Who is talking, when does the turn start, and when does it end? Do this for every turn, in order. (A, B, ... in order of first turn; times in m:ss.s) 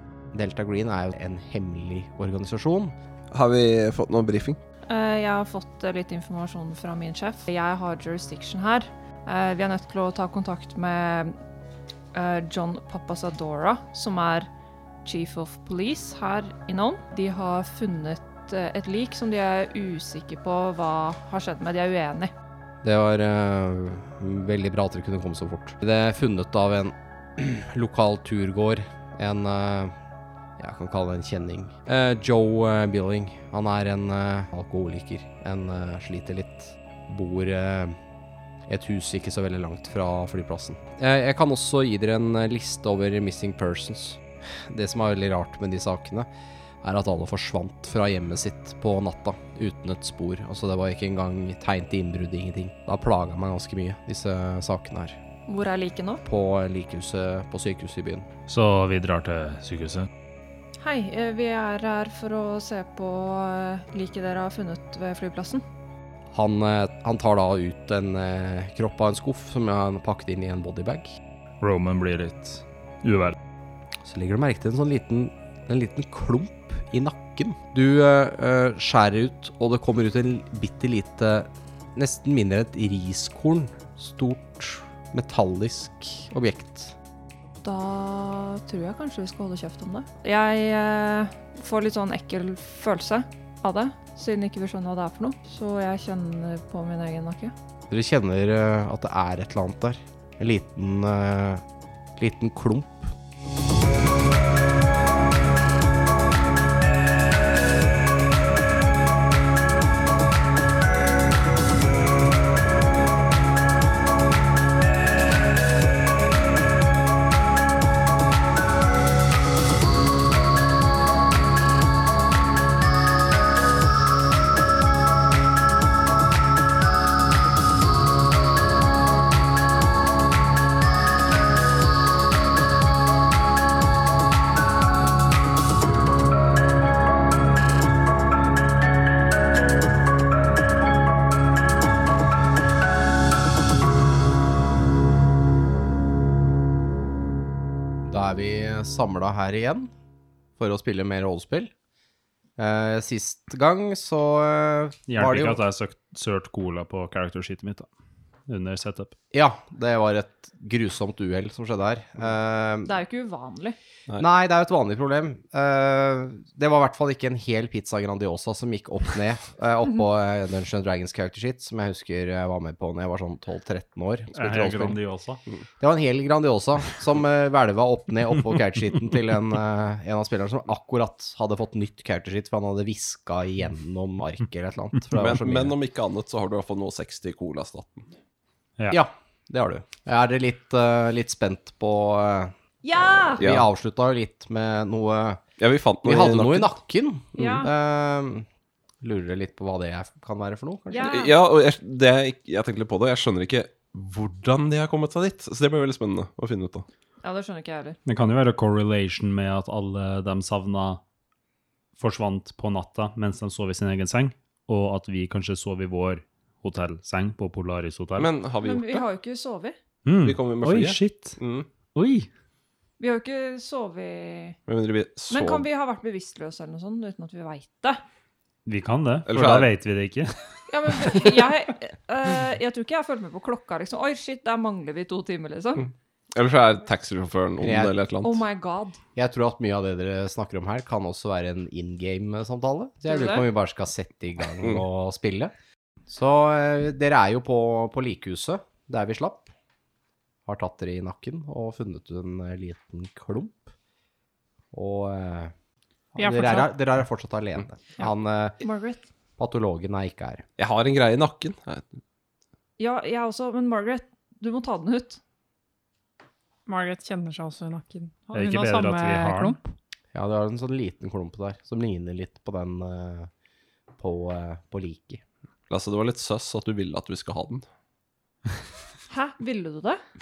0:00.3-0:02.9 A
0:03.3-0:04.6 B
0:04.9-0:11.4 C
0:12.1-0:14.5 C
0:15.0-0:22.3 C
0:22.8-0:30.0 A
0:30.6-0:38.0 A
0:38.7-0:46.3 A
0:46.8-0:55.2 A
0:55.5-0:56.2 C
0:56.2-0:58.3 A
0:58.5-1:00.1 D
1:00.8-1:05.6 C
1:06.3-1:11.2 A
1:11.6-1:13.4 D
1:14.0-1:27.0 A
1:27.6-1:37.5 C
1:37.9-1:41.6 A
1:42.2-1:43.1 A
2:28.1-2:29.9 A
2:30.6-2:31.7 A
2:32.6-2:35.6 A
2:35.1-2:37.9 D
2:38.5-2:39.2 D
2:39.3-2:43.0 A
2:42.8-2:43.8 C
2:44.2-2:55.0 A
2:54.3-2:55.4 D
2:55.8-3:05.8 A
3:05.2-3:08.1 B
3:08.9-3:15.4 A
3:12.8-3:13.4 C
3:13.4-3:13.7 B
3:15.6-3:16.8 B
3:16.0-3:18.5 A
3:17.4-3:17.7 C
3:19.0-3:21.2 A
3:20.9-3:21.4 C
3:21.0-3:26.9 B
3:27.2-3:28.0 C
3:28.1-3:31.0 D
3:32.0-3:38.3 D
3:38.2-3:39.1 B
3:38.6-3:39.8 C
3:40.0-3:41.4 D
3:40.2-3:41.7 B
3:42.0-3:42.3 D
3:43.0-3:44.6 C
3:44.7-3:45.6 B
3:45.3-3:48.0 C
3:48.6-3:50.3 D
3:49.3-3:49.7 B
3:50.7-3:55.9 C
3:55.8-3:58.4 B
3:57.6-3:58.0 A
3:58.2-3:59.0 C
3:59.2-4:05.5 A
4:03.1-4:03.5 C
4:06.1-4:09.5 A
4:10.5-4:13.7 A
4:14.7-4:15.5 A
4:16.2-4:18.6 A
4:16.2-4:16.7 E
4:18.6-4:19.1 C
4:19.4-4:20.4 A
4:20.6-4:21.9 B
4:22.8-4:25.2 C
4:26.7-4:29.7 E
4:28.3-4:29.6 D
4:30.1-4:33.3 A
4:34.0-4:35.2 A
4:35.7-4:37.7 B
4:39.1-4:40.0 C